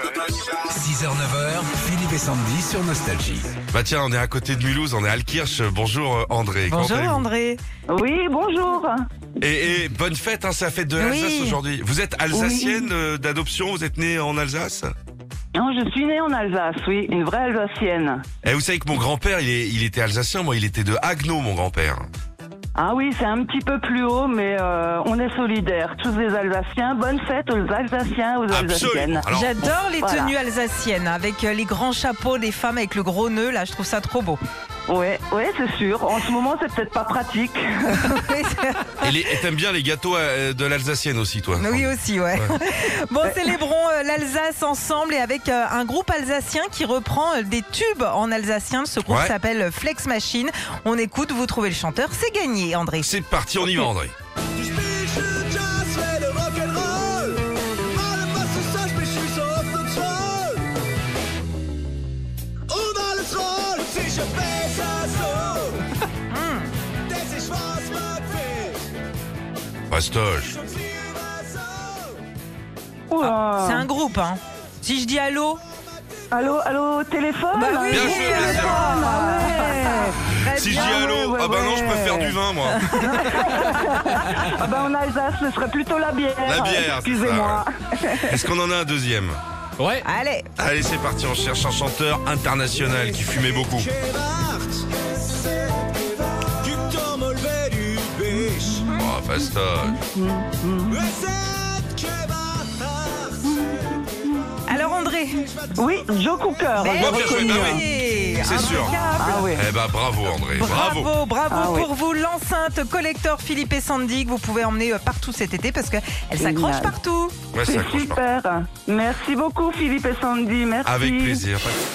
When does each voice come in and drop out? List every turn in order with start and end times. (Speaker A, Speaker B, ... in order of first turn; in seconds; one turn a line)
Speaker A: 0.5-3.5
Speaker B: 3.7-7.3
Speaker C: 6.7-7.6
Speaker D: 7.9-9.1
Speaker B: 9.4-14.9
Speaker C: 11.0-11.6
Speaker D: 12.3-12.9
Speaker D: 15.6-18.2
Speaker B: 18.4-22.1
Speaker D: 22.8-29.3
Speaker B: 28.5-29.6
Speaker C: 29.3-34.4
Speaker D: 29.9-30.3
Speaker D: 34.9-38.2
Speaker C: 37.9-39.1
Speaker B: 39.0-42.5
Speaker C: 41.6-53.1
Speaker B: 49.1-49.4
Speaker B: 53.0-54.1
Speaker E: 54.6-60.7
Speaker E: 62.7-65.8
Speaker C: 66.3-66.7
Speaker E: 67.1-68.9
Speaker B: 69.9-70.6
Speaker E: 70.7-72.0
Speaker D: 73.1-73.9
Speaker C: 73.2-75.6
Speaker D: 76.3-88.4
Speaker C: 77.5-81.1
Speaker B: 77.9-78.9
Speaker B: 80.3-83.1
Speaker C: 82.8-84.3
Speaker B: 86.5-87.6
Speaker B: 88.3-89.4
Speaker C: 89.9-90.5
Speaker B: 90.6-93.9
Speaker E: 93.9-95.8
Speaker E: 96.6-98.8
Speaker D: 98.3-98.8
Speaker B: 98.9-100.0
Speaker D: 99.9-101.0
Speaker E: 101.0-103.4
Speaker D: 103.4-104.4
Speaker C: 104.7-105.5
Speaker E: 105.5-105.7
Speaker D: 105.8-107.8
Speaker C: 106.8-109.6
Speaker B: 106.9-109.0
Speaker D: 108.9-109.7
Speaker B: 109.5-111.1
Speaker C: 110.5-117.4
Speaker D: 111.5-111.9
Speaker D: 116.4-116.9
Speaker B: 117.5-118.2
Speaker D: 117.6-121.4
Speaker B: 120.8-121.8